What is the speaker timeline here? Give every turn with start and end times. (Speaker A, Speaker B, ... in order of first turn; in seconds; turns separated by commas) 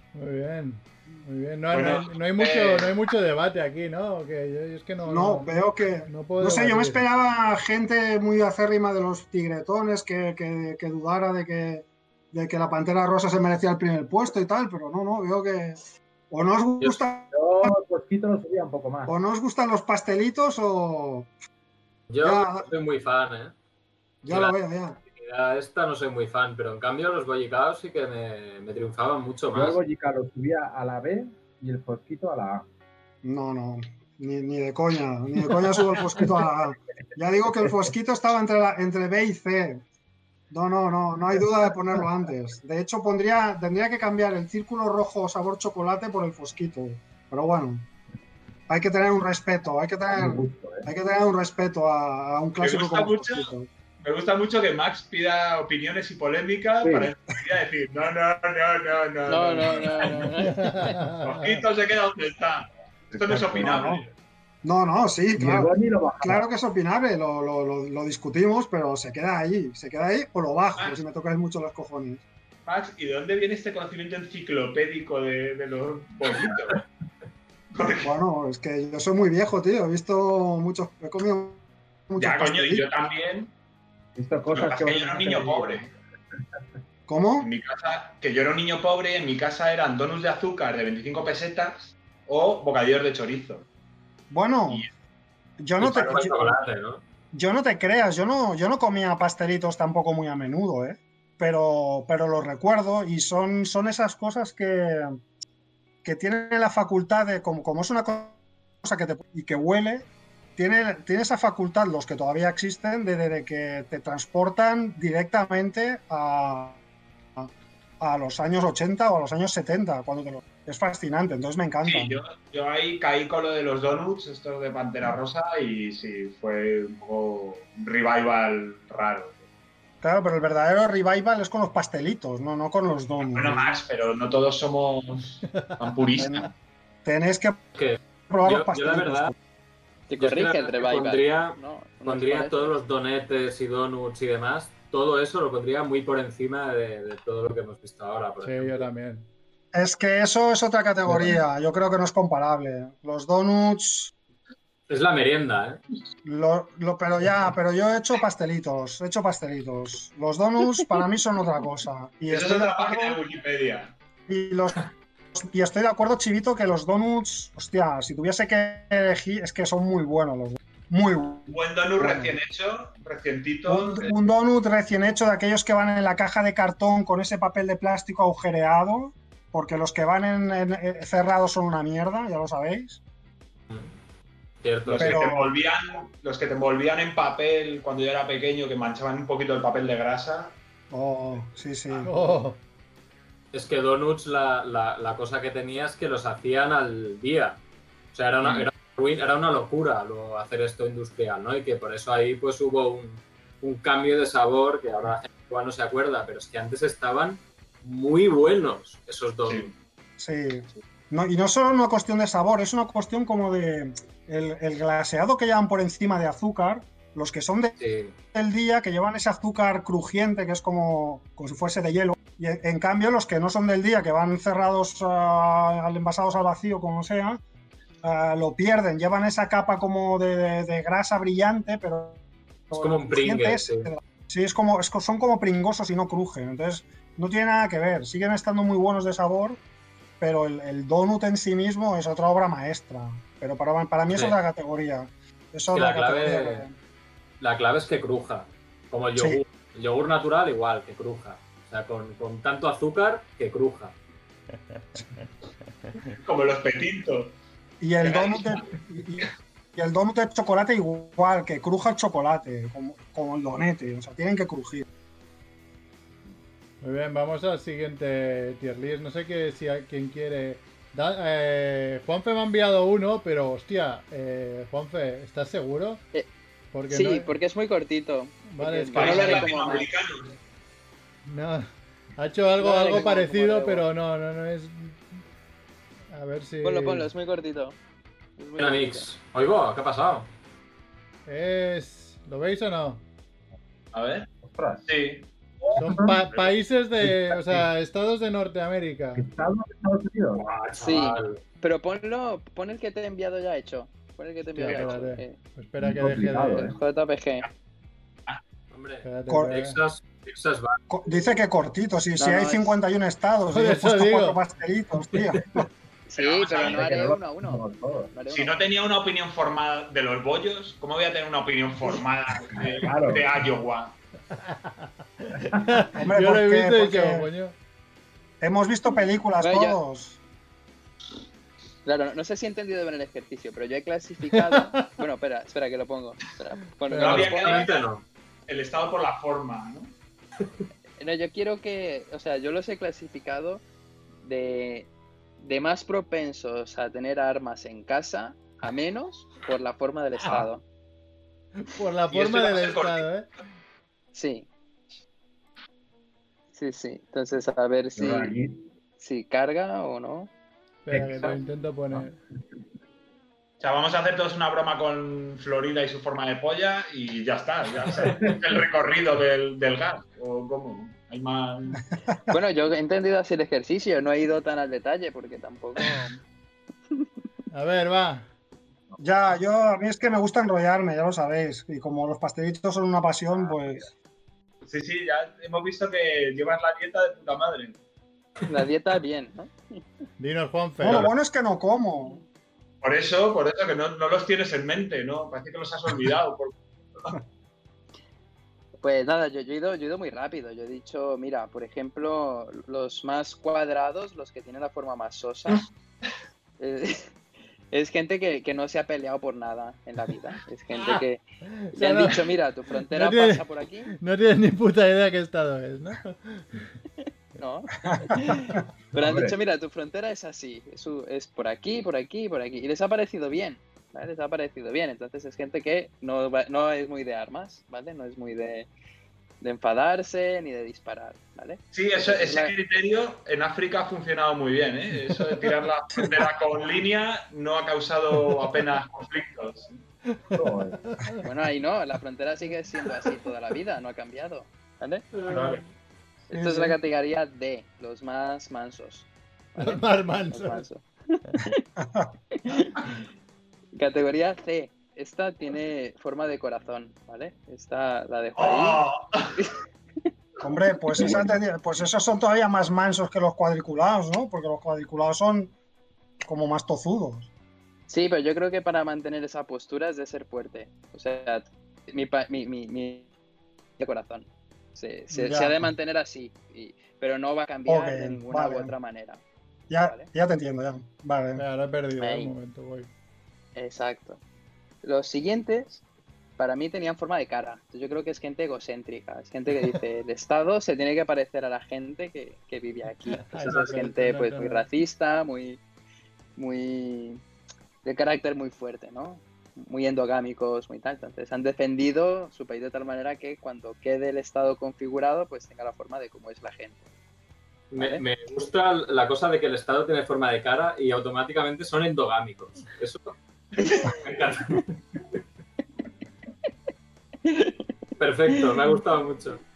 Speaker A: 0.1-5.5, Speaker B: 1.7-3.0, Speaker C: 5.0-17.8, Speaker A: 6.1-7.0, Speaker D: 17.3-19.1, Speaker C: 19.1-21.3, Speaker E: 22.1-23.5, Speaker C: 22.2-22.7, Speaker C: 24.2-25.0, Speaker E: 24.3-29.8, Speaker D: 29.5-32.7, Speaker C: 33.2-39.8, Speaker D: 36.1-36.4, Speaker D: 37.5-37.9, Speaker C: 40.5-47.9, Speaker C: 48.7-53.7, Speaker D: 50.1-50.9, Speaker B: 52.6-53.5, Speaker B: 54.0-60.4, Speaker D: 56.8-57.1, Speaker F: 59.3-61.1, Speaker A: 60.4-61.6, Speaker B: 61.2-64.1, Speaker D: 63.1-63.8, Speaker C: 63.6-64.0, Speaker C: 64.6-72.2, Speaker D: 65.3-66.4, Speaker B: 72.7-76.8, Speaker B: 77.7-78.1, Speaker C: 78.0-82.8, Speaker B: 82.2-83.5, Speaker D: 84.2-85.9, Speaker B: 84.5-85.9, Speaker C: 87.1-87.5, Speaker B: 87.4-93.7, Speaker C: 94.3-94.8, Speaker C: 95.6-96.5, Speaker E: 95.8-97.0, Speaker C: 97.3-105.2, Speaker C: 106.0-116.8, Speaker C: 117.3-122.2, Speaker B: 121.8-129.4, Speaker C: 130.0-133.8, Speaker B: 133.3-136.5, Speaker C: 136.2-136.5, Speaker C: 137.0-137.6, Speaker E: 137.7-139.3, Speaker C: 138.3-139.3, Speaker F: 140.1-142.8, Speaker E: 140.2-148.8, Speaker A: 148.4-149.3, Speaker C: 149.7-154.1, Speaker D: 151.1-151.3, Speaker E: 154.9-155.8, Speaker C: 156.2-163.2, Speaker B: 162.3-163.9, Speaker C: 164.3-164.8, Speaker C: 165.3-172.3, Speaker B: 171.5-174.1, Speaker C: 173.7-183.0, Speaker E: 184.6-185.2, Speaker B: 184.8-190.6, Speaker C: 185.0-185.5, Speaker C: 190.9-192.1, Speaker A: 192.0-192.6, Speaker E: 193.5-197.6, Speaker E: 198.1-209.7, Speaker B: 209.4-209.7, Speaker C: 210.2-217.8, Speaker E: 217.8-218.1, Speaker C: 218.3-227.4, Speaker C: 228.0-239.6, Speaker E: 232.7-233.9, Speaker C: 240.2-246.7, Speaker E: 244.1-244.4, Speaker E: 245.7-246.7, Speaker E: 247.4-253.9, Speaker C: 249.2-249.4, Speaker A: 254.7-255.2, Speaker B: 256.1-257.4, Speaker C: 257.8-264.8, Speaker B: 258.0-258.6, Speaker A: 266.8-276.0, Speaker A: 276.7-277.3, Speaker F: 276.9-279.9, Speaker A: 278.5-279.5, Speaker B: 278.9-280.3, Speaker A: 281.2-285.0, Speaker F: 282.6-283.8, Speaker A: 286.1-287.1, Speaker F: 286.6-287.8, Speaker F: 288.4-289.1, Speaker E: 288.6-290.3, Speaker A: 291.3-293.0, Speaker B: 293.9-294.3, Speaker D: 294.4-294.9, Speaker B: 294.9-295.2, Speaker D: 295.6-296.2, Speaker A: 295.8-299.2, Speaker D: 297.0-297.7, Speaker D: 299.1-300.4, Speaker E: 300.4-301.4, Speaker F: 300.8-305.4, Speaker A: 304.5-306.8, Speaker D: 305.8-306.8, Speaker F: 306.6-307.5, Speaker E: 308.7-310.8, Speaker A: 309.0-309.8, Speaker C: 309.3-309.6, Speaker C: 310.9-315.7, Speaker F: 312.2-312.8, Speaker A: 313.5-314.4, Speaker F: 316.1-318.6, Speaker B: 316.1-316.9, Speaker D: 316.6-318.1, Speaker B: 318.3-323.9, Speaker D: 322.4-323.4, Speaker A: 324.3-327.6, Speaker D: 325.5-325.7, Speaker C: 325.9-327.3, Speaker C: 328.4-330.2, Speaker F: 329.4-329.8, Speaker F: 331.8-337.7, Speaker A: 334.3-334.8, Speaker A: 336.9-337.3, Speaker B: 337.0-337.9, Speaker E: 337.1-338.0, Speaker B: 338.5-339.9, Speaker F: 341.0-343.6, Speaker F: 344.2-350.6, Speaker A: 350.2-350.5, Speaker A: 351.6-353.3, Speaker B: 352.1-353.1, Speaker F: 354.1-354.5, Speaker F: 356.5-358.3, Speaker D: 357.9-358.7, Speaker F: 359.0-360.3, Speaker A: 360.8-362.1, Speaker D: 360.9-361.3, Speaker B: 363.6-371.8, Speaker D: 367.9-368.6, Speaker F: 372.3-376.2, Speaker A: 377.5-378.3, Speaker C: 379.0-383.9, Speaker B: 384.6-387.8, Speaker F: 388.4-389.5, Speaker A: 390.2-391.1, Speaker C: 390.8-392.2, Speaker B: 392.8-397.1, Speaker F: 398.8-405.7, Speaker F: 406.6-407.1, Speaker F: 407.7-413.9, Speaker A: 410.7-412.3, Speaker A: 412.9-413.4, Speaker A: 414.0-416.6, Speaker F: 417.4-428.7, Speaker C: 417.9-418.2, Speaker D: 418.9-419.3, Speaker F: 429.4-432.5, Speaker B: 431.7-439.8, Speaker A: 440.1-441.2, Speaker D: 440.3-440.8, Speaker F: 441.2-445.1, Speaker B: 445.2-445.6, Speaker F: 446.3-450.8, Speaker C: 446.3-446.7, Speaker A: 449.6-450.6, Speaker F: 451.4-451.6, Speaker C: 451.8-452.1, Speaker F: 452.3-452.9, Speaker F: 453.7-460.1, Speaker B: 458.4-459.3, Speaker C: 460.4-465.5, Speaker D: 461.0-461.3, Speaker C: 466.2-467.3, Speaker F: 467.9-473.1, Speaker F: 473.8-479.2, Speaker C: 475.1-475.7, Speaker C: 477.7-478.7, Speaker C: 479.7-481.4, Speaker F: 479.8-480.1, Speaker A: 481.4-482.9, Speaker F: 482.0-482.3, Speaker F: 483.5-484.2, Speaker F: 484.8-485.8, Speaker F: 486.4-495.6, Speaker A: 493.1-494.6, Speaker F: 496.4-497.2, Speaker F: 497.8-506.8, Speaker E: 507.7-513.1, Speaker F: 507.8-508.0, Speaker F: 513.6-514.0, Speaker E: 513.8-514.7, Speaker F: 517.2-517.7, Speaker E: 518.0-519.4, Speaker F: 518.3-518.6